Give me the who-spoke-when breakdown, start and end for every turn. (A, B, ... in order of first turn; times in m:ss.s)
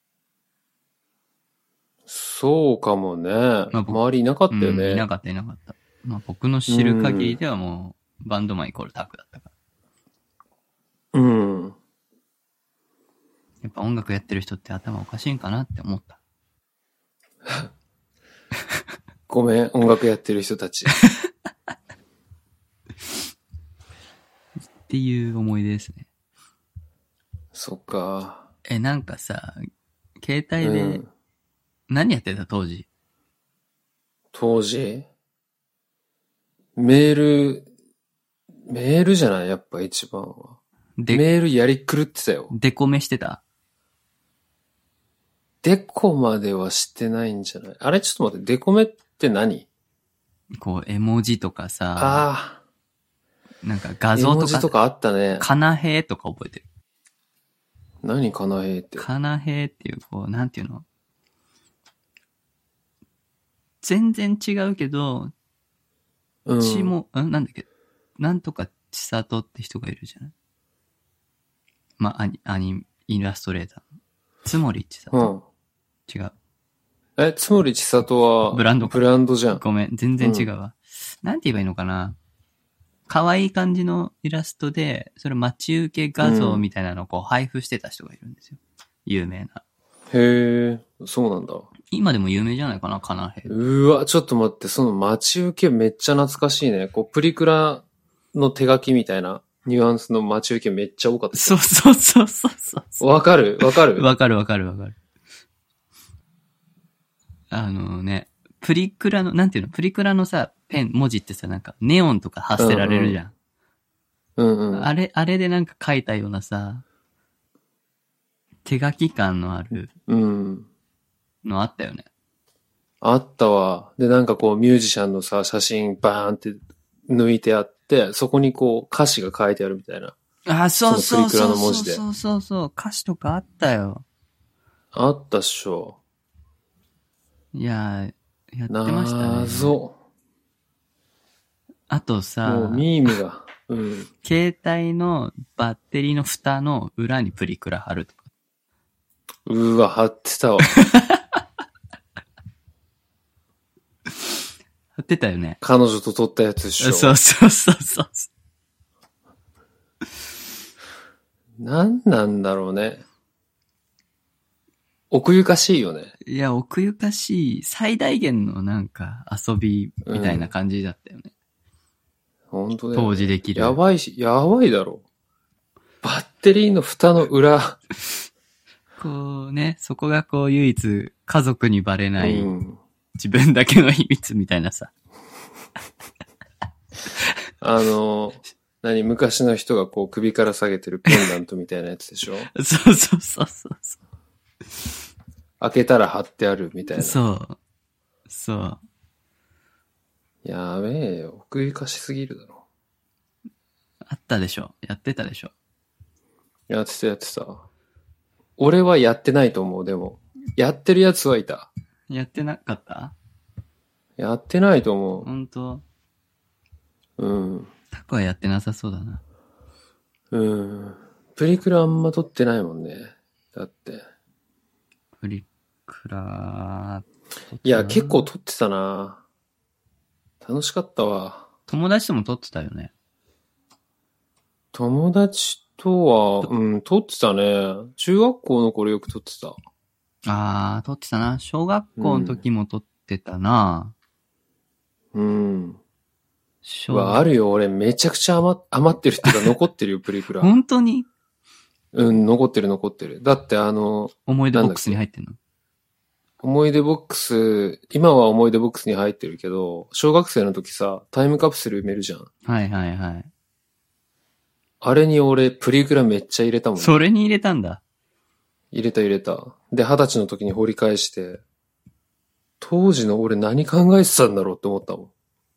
0:02.1-0:05.0 A
0:03.7-0:09.5 B
0:06.7-0:07.4 A
0:11.1-0:11.8 A
0:13.6-0:16.2 B
0:19.3-0:21.0 A
0:24.9-0:26.1 B
0:27.5-0:28.5 A
0:28.7-0:29.7 B
0:30.2-0:31.0 B
0:30.6-0:31.1 A
0:31.9-0:32.9 B
0:34.3-0:35.1 A
0:36.8-0:37.7 A
0:38.7-0:40.6 A
0:41.0-0:41.2 B
0:41.1-0:42.5 A
0:42.5-0:43.4 B
0:45.6-0:49.7 A
0:50.6-0:52.3 B
0:52.0-0:52.6 A
0:53.6-0:54.7 B
0:54.2-0:55.5 A
0:55.4-0:56.6 B
0:58.0-0:59.0 A
0:59.0-1:00.8 B
1:03.8-1:05.3 B
1:06.5-1:07.0 A
1:06.6-1:07.7 B
1:08.2-1:10.3 B
1:12.0-1:13.8 B
1:14.4-1:15.3 B
1:15.1-1:15.4 A
1:16.1-1:16.3 B
1:17.2-1:19.6 A
1:18.5-1:22.2 B
1:20.2-1:20.5 A
1:23.1-1:29.6 B
1:26.2-1:26.6 A
1:30.1-1:31.7 A
1:31.9-1:33.6 B
1:33.5-1:41.6 A
1:41.3-1:43.1 B
1:43.0-1:44.1 A
1:43.6-1:45.0 B
1:47.5-1:53.3 B
1:52.6-1:53.2 A
1:54.4-1:54.9 A
1:54.7-1:56.8 B
1:58.6-1:59.9 B
2:00.1-2:00.7 A
2:01.4-2:02.1 B
2:03.0-2:10.2 A
2:10.5-2:14.0 B
2:10.9-2:12.0 A
2:14.9-2:16.0 A
2:17.5-2:19.8 B
2:18.7-2:19.9 A
2:21.9-2:22.9 B
2:22.4-2:24.1 A
2:24.2-2:28.2 B
2:29.5-2:30.8 A
2:30.8-2:31.2 B
2:35.0-2:35.6 B
2:35.6-2:37.2 A
2:36.8-2:38.3 B
2:41.6-2:43.0 A
2:45.1-2:46.1 A
2:46.3-2:51.3 B
2:50.1-2:50.5 A
2:52.5-2:55.0 A
2:52.9-2:53.8 B
2:56.0-2:57.8 A
2:59.0-3:02.5 B
3:02.2-3:02.8 A
3:03.2-3:04.9 B
3:07.6-3:12.5 A
3:12.5-3:14.0 B
3:15.6-3:17.2 A
3:17.0-3:17.6 B
3:18.3-3:18.8 B
3:20.4-3:22.6 A
3:24.1-3:25.5 B
3:26.7-3:27.7 A
3:28.6-3:31.7 A
3:32.1-3:33.2 B
3:34.2-3:35.3 A
3:35.2-3:35.8 B
3:37.2-3:37.7 A
3:37.9-3:39.2 B
3:40.3-3:44.0 A
3:45.2-3:48.3 B
3:47.6-3:49.2 A
3:50.4-3:51.5 A
3:51.7-3:52.9 B
3:54.7-3:59.6 A
4:00.3-4:03.9 B
4:02.0-4:02.4 A
4:05.1-4:05.8 A
4:06.6-4:07.3 B
4:06.9-4:10.5 A
4:10.4-4:11.1 B
4:11.9-4:15.0 A
4:14.3-4:15.4 B
4:16.4-4:22.3 A
4:22.4-4:23.3 B
4:24.8-4:27.0 A
4:26.8-4:27.8 B
4:28.7-4:31.4 A
4:32.6-4:35.1 A